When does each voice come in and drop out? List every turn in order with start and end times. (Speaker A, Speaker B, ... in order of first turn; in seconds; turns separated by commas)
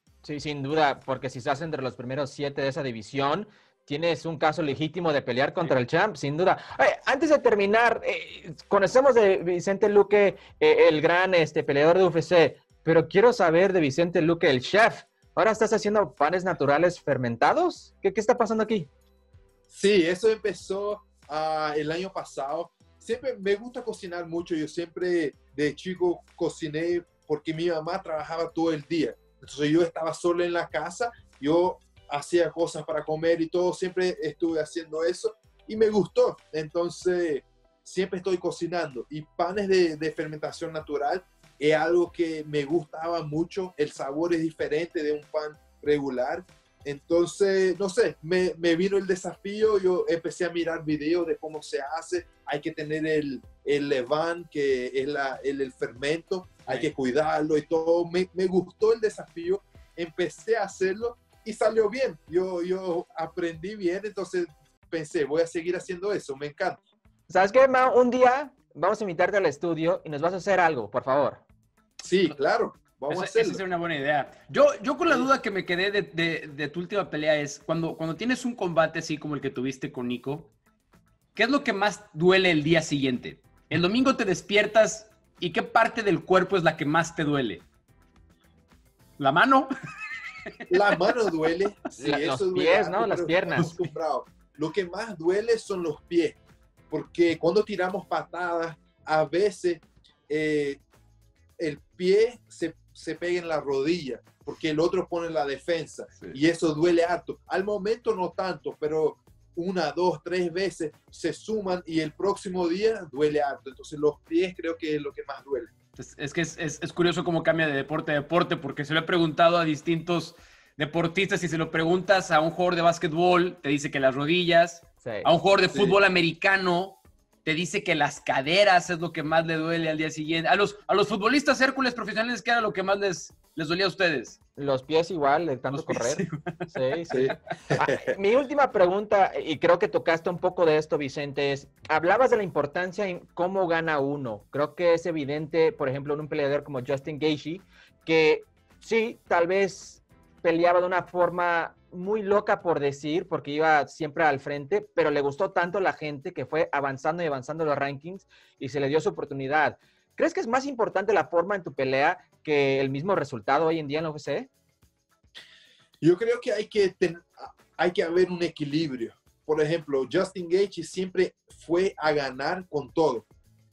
Speaker A: 0.2-18.9, Speaker B: 19.7-66.8, Speaker A: 67.3-71.4, Speaker B: 72.0-73.6, Speaker C: 73.1-80.5, Speaker C: 81.3-87.6, Speaker C: 89.2-89.7, Speaker C: 90.5-91.3, Speaker B: 90.7-96.4, Speaker A: 92.0-93.7, Speaker B: 96.9-100.8, Speaker B: 101.6-115.7, Speaker C: 116.0-134.4, Speaker A: 125.0-125.3, Speaker A: 134.6-164.5, Speaker C: 135.7-137.3, Speaker B: 137.1-138.0, Speaker B: 166.0-173.2